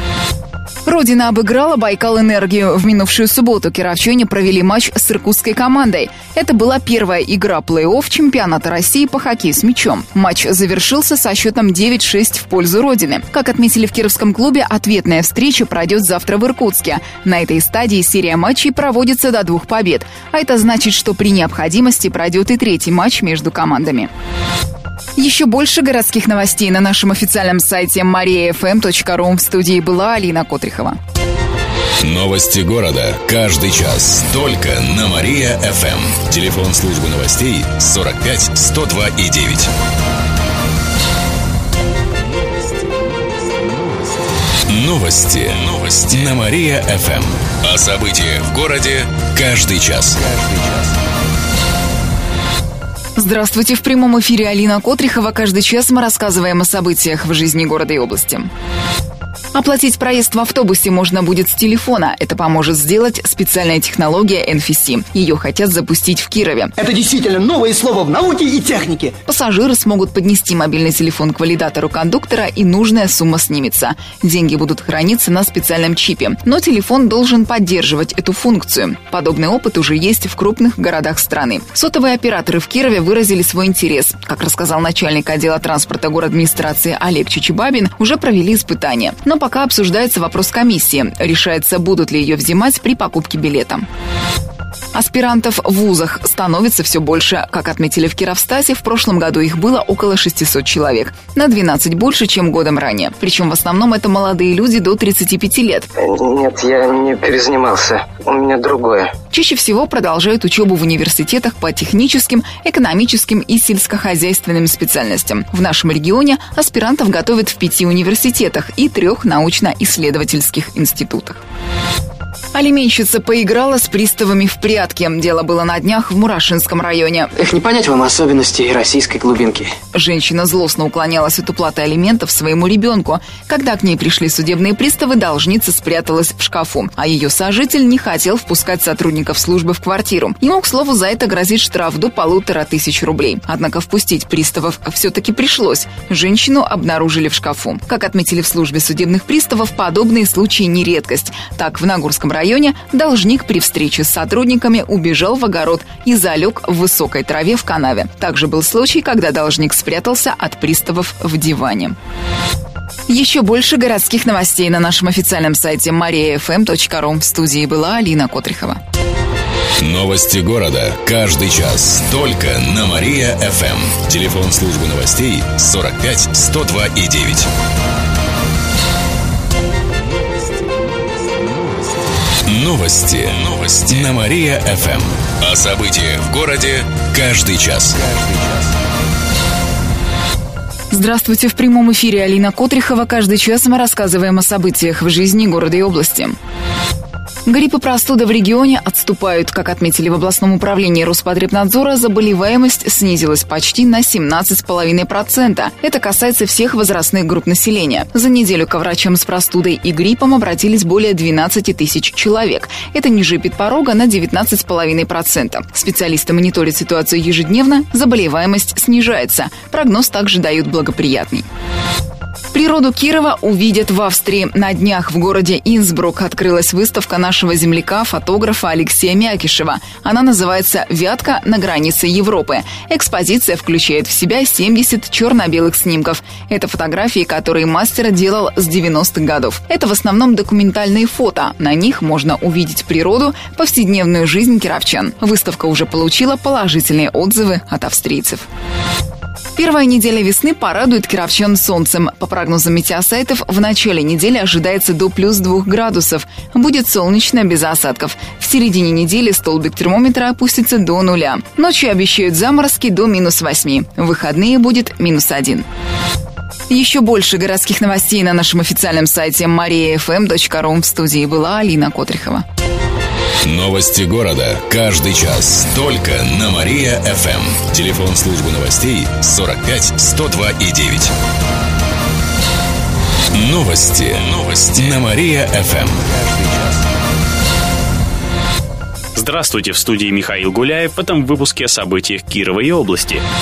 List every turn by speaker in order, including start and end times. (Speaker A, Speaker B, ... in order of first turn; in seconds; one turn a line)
Speaker A: 0.8-24.1
Speaker A: 25.2-31.0
Speaker B: 32.0-39.7
Speaker B: 44.6-50.3
Speaker A: 53.1-58.5
Speaker A: 59.5-66.7
Speaker C: 66.8-69.1
Speaker A: 69.3-93.8
Speaker A: 94.9-105.9
Speaker D: 106.0-109.1
Speaker A: 109.3-121.4
Speaker A: 122.5-127.5
Speaker E: 127.5-129.7
Speaker A: 129.9-161.9
Speaker A: 163.1-168.8
Speaker B: 169.8-177.5
Speaker B: 182.4-188.2
Speaker A: 190.9-196.3
Speaker A: 197.4-221.4
Speaker A: 222.5-248.5
Speaker A: 249.6-265.6
Speaker A: 266.7-272.4
Speaker B: 273.4-281.1
Speaker B: 283.3-286.3
Speaker F: 289.1-293.2